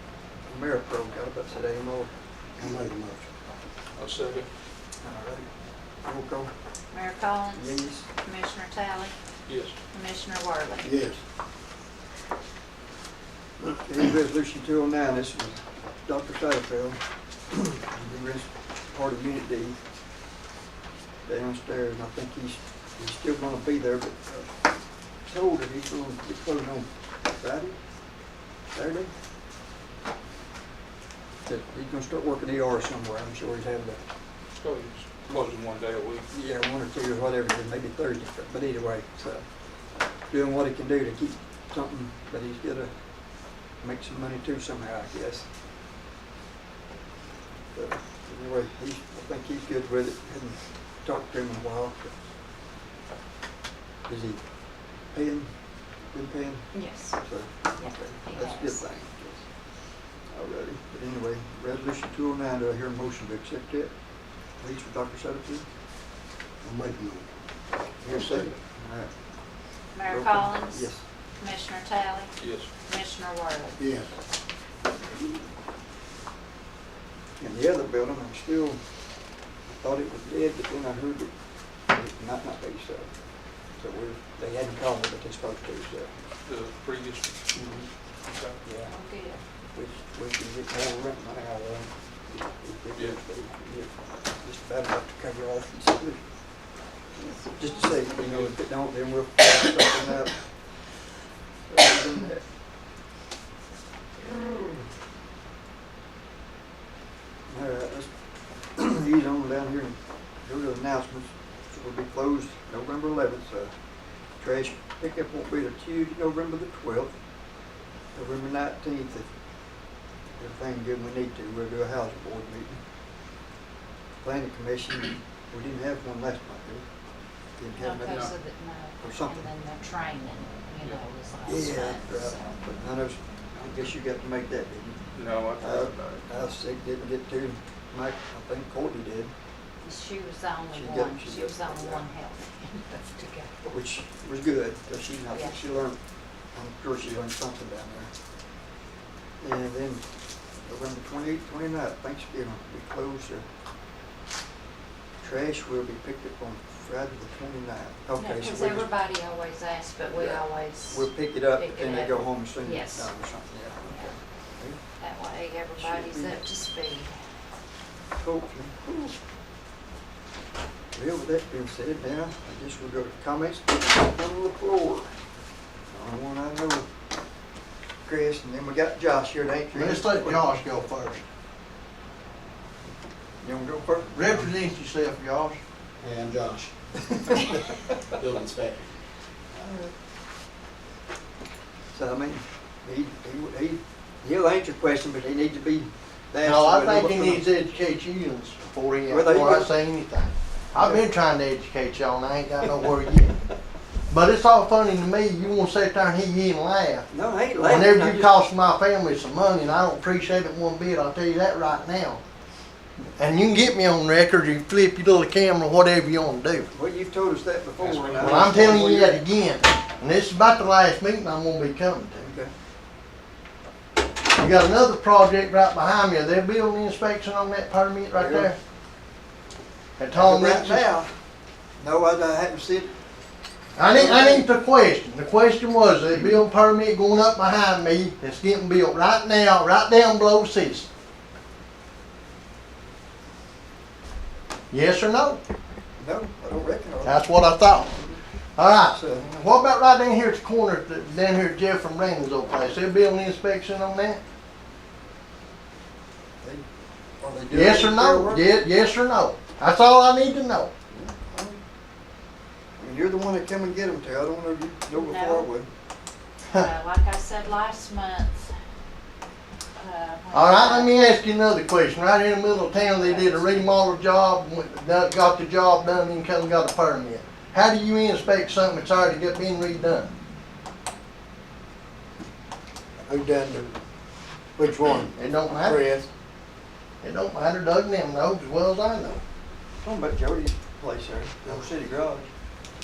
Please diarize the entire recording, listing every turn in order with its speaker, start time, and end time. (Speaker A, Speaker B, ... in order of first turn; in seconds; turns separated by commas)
Speaker A: 0.5-2.1, Speaker B: 2.6-3.2, Speaker C: 4.0-4.5, Speaker A: 5.0-5.5, Speaker A: 6.0-6.5, Speaker D: 6.9-9.2, Speaker A: 7.5-8.1, Speaker C: 9.5-9.8, Speaker D: 9.9-10.9, Speaker B: 10.8-11.2, Speaker A: 13.7-19.8, Speaker A: 21.2-24.5, Speaker A: 25.2-27.8, Speaker A: 28.7-29.1, Speaker A: 31.4-34.0, Speaker C: 34.6-36.2, Speaker A: 36.3-39.5, Speaker A: 40.3-42.9, Speaker A: 43.8-45.5, Speaker A: 47.7-52.2, Speaker A: 54.1-54.4, Speaker A: 55.0-55.5, Speaker A: 56.1-59.5, Speaker D: 56.7-58.8, Speaker A: 60.3-63.9, Speaker A: 64.6-65.7, Speaker B: 66.6-67.2, Speaker A: 68.0-69.1, Speaker B: 68.1-68.5, Speaker D: 69.9-73.8, Speaker A: 70.0-71.0, Speaker C: 72.4-72.7, Speaker B: 73.8-74.1, Speaker A: 77.4-78.8, Speaker A: 79.8-83.1, Speaker A: 83.7-86.1, Speaker C: 86.5-87.3, Speaker C: 88.3-88.6, Speaker A: 88.6-88.9, Speaker D: 88.8-89.4, Speaker A: 89.7-96.2, Speaker A: 97.5-100.6, Speaker C: 98.2-98.5, Speaker A: 101.7-102.4, Speaker A: 104.2-104.8, Speaker A: 107.5-108.1, Speaker A: 108.7-113.7, Speaker A: 114.4-117.1, Speaker A: 118.1-119.3, Speaker A: 120.4-122.8, Speaker A: 124.2-126.9, Speaker A: 127.6-128.3, Speaker D: 127.7-132.5, Speaker A: 129.0-129.5, Speaker A: 131.4-135.0, Speaker C: 135.1-135.9, Speaker A: 135.6-139.3, Speaker D: 139.8-143.6, Speaker A: 140.7-142.1, Speaker A: 143.6-148.1, Speaker A: 149.4-150.0, Speaker A: 150.6-153.5, Speaker A: 155.2-158.9, Speaker D: 158.2-163.2, Speaker A: 160.1-164.8, Speaker D: 163.8-164.1, Speaker D: 165.0-167.1, Speaker A: 165.8-166.4, Speaker A: 168.2-169.1, Speaker A: 170.9-175.1, Speaker A: 175.9-176.9, Speaker A: 178.0-180.5, Speaker E: 179.7-181.2, Speaker A: 183.4-184.3, Speaker E: 184.1-185.6, Speaker B: 186.0-186.7, Speaker B: 188.2-188.8, Speaker A: 189.5-189.9, Speaker A: 191.9-197.4, Speaker E: 196.4-203.4, Speaker A: 199.1-199.7, Speaker A: 200.8-201.0, Speaker E: 204.1-207.1, Speaker A: 207.1-208.3, Speaker E: 207.6-212.2, Speaker E: 213.2-216.7, Speaker A: 216.7-219.2, Speaker C: 217.8-218.3, Speaker E: 218.1-222.3, Speaker A: 222.2-222.5, Speaker E: 224.3-228.6, Speaker A: 228.1-228.5, Speaker E: 230.0-230.9, Speaker A: 230.1-231.1, Speaker A: 231.8-232.9, Speaker E: 233.8-240.9, Speaker A: 233.9-234.5, Speaker E: 244.7-245.4, Speaker A: 246.0-247.3, Speaker E: 247.0-248.0, Speaker A: 247.9-248.2, Speaker E: 248.6-254.2, Speaker A: 248.9-249.4, Speaker A: 257.2-258.5, Speaker E: 257.5-260.7, Speaker A: 260.9-261.6, Speaker A: 262.8-265.7, Speaker D: 264.9-265.5, Speaker D: 266.5-268.5, Speaker D: 269.8-270.9, Speaker E: 270.3-280.1, Speaker D: 272.7-273.7, Speaker B: 283.1-283.7, Speaker B: 284.6-286.1, Speaker E: 285.1-285.9, Speaker E: 287.0-289.2, Speaker A: 289.8-292.3